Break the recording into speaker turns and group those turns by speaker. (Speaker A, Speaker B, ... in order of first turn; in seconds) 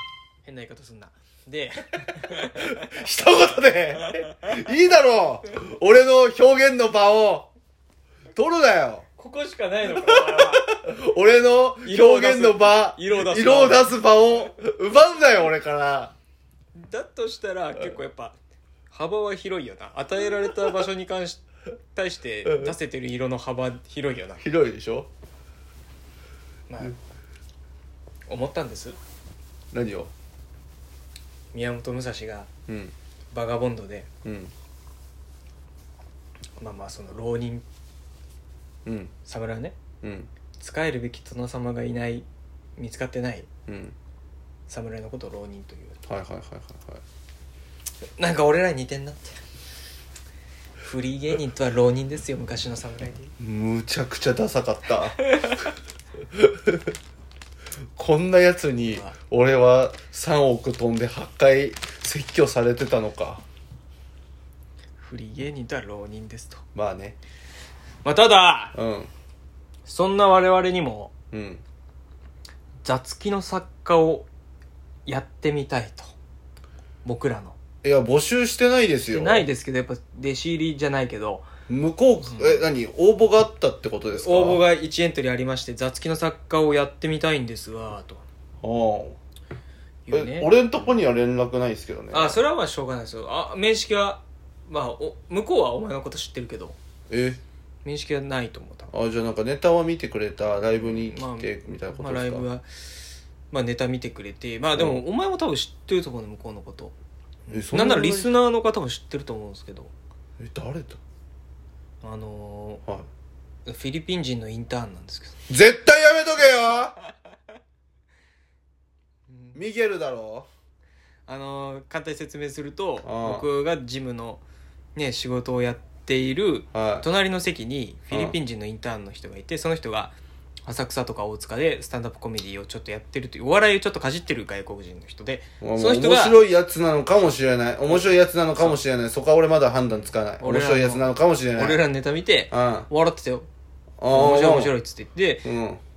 Speaker A: 0.4-2.9, 9.2-10.7, 11.8-13.9, 16.8-18.4, 18.9-21.4, 21.9-24.4, 26.7-26.9, 28.3-29.0, 31.5-32.5, 33.3-34.1, 36.6-37.6, 39.2-39.8, 40.6-42.2, 42.8-43.5, 44.7-46.0, 48.2-49.4, 50.8-53.3, 55.2-55.6, 58.8-59.1, 65.0-66.6, 68.0-68.7, 69.8-71.1, 72.8-74.3, 75.0-76.1, 77.0-77.6, 79.0-81.5, 82.3-82.7, 84.1-88.2, 90.0-90.5, 92.1-96.8, 97.8-98.9, 100.8-102.7, 103.5-106.9, 107.5-109.9, 112.0-112.8, 113.7-115.3, 121.3-124.4, 124.9-136.4, 137.9-138.7, 140.4-143.5, 144.1-145.5
Speaker B: 2.5-7.5, 8.3-9.0, 9.9-16.1, 24.4-25.1, 29.7-30.1, 32.7-32.9, 34.2-34.5, 38.9-39.1, 40.0-40.3, 43.7-43.9, 46.0-47.0, 53.4-55.3, 56.3-56.8, 58.0-63.4, 66.7-67.2, 68.7-69.1, 71.3-71.6, 77.8-79.5, 81.7-84.6, 88.6-89.2, 90.1-92.4, 97.1-97.4, 98.9-102.5, 104.7-105.0, 107.5-108.3, 110.4-111.0, 115.5-117.0, 119.5-120.5, 123.0-123.5, 126.7-127.0, 135.6-141.8, 142.5-142.9, 144.0-144.7, 145.4-145.8